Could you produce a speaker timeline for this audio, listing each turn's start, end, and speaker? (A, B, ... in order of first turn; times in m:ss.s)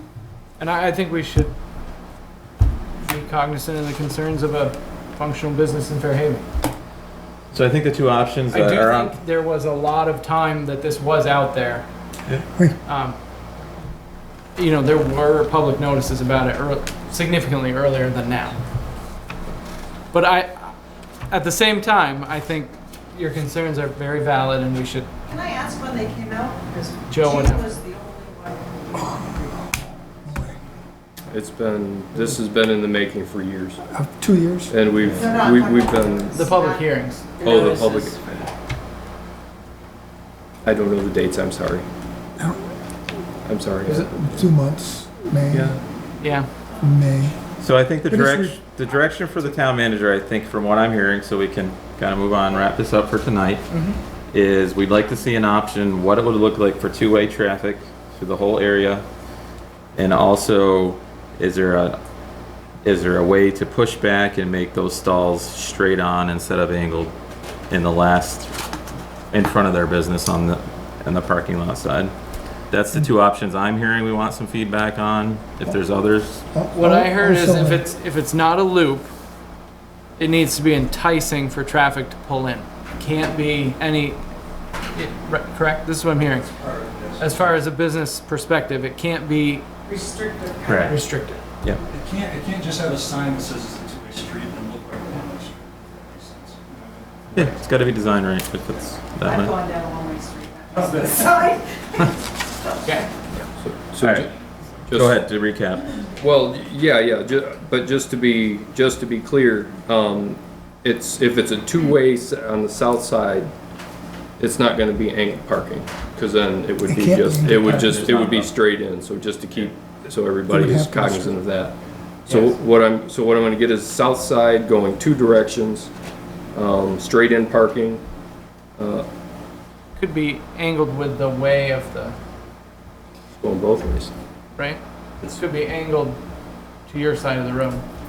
0:00.6-0:01.6 A
0:03.0-0:06.4 A
0:07.5-0:09.2 B
0:08.5-0:11.9 A
0:12.9-0:13.2 A
0:14.6-0:18.6 A
0:20.1-0:20.8 A
0:21.3-0:25.1 A
0:25.3-0:28.8 C
0:27.1-0:27.7 A
0:29.0-0:29.3 D
0:30.2-0:30.6 D
0:31.3-0:33.8 E
0:33.9-0:34.7 D
0:34.7-0:36.4 E
0:35.2-0:36.7 C
0:36.3-0:38.5 A
0:37.4-0:38.3 E
0:40.6-0:41.9 E
0:43.4-0:44.5 E
0:43.9-0:45.8 D
0:45.5-0:45.8 E
0:46.2-0:46.5 A
0:46.8-0:47.4 D
0:47.6-0:53.6 B
0:48.1-0:48.6 D
0:53.7-0:54.0 A
0:54.3-0:59.0 B
1:00.0-1:02.0 B
1:02.8-1:07.1 B
1:07.7-1:08.5 B
1:09.3-1:12.1 B
1:12.7-1:16.4 B
1:16.5-1:17.8 D
1:16.8-1:19.1 A
1:20.2-1:24.2 A
1:24.9-1:26.5 A
1:26.3-1:27.6 F
1:27.2-1:29.7 A
1:29.9-1:30.8 C
1:30.6-1:31.0 B
1:30.9-1:31.4 A
1:31.9-1:37.6 F
1:37.3-1:39.6 B
1:39.2-1:41.6 C
1:40.8-1:41.6 F
1:42.8-1:43.1 A
1:43.6-1:44.3 E
1:44.0-1:44.3 B
1:44.9-1:45.2 E
1:44.9-1:45.9 B
1:46.2-1:53.5 E
1:54.4-2:05.9 E
1:56.8-1:58.0 D
1:57.4-1:58.5 B
2:00.5-2:01.4 D
2:02.3-2:02.5 A
2:06.5-2:08.0 E
2:08.8-2:09.1 E
2:10.0-2:12.2 A
2:13.4-2:14.1 E
2:14.6-2:16.2 A
2:16.9-2:17.8 A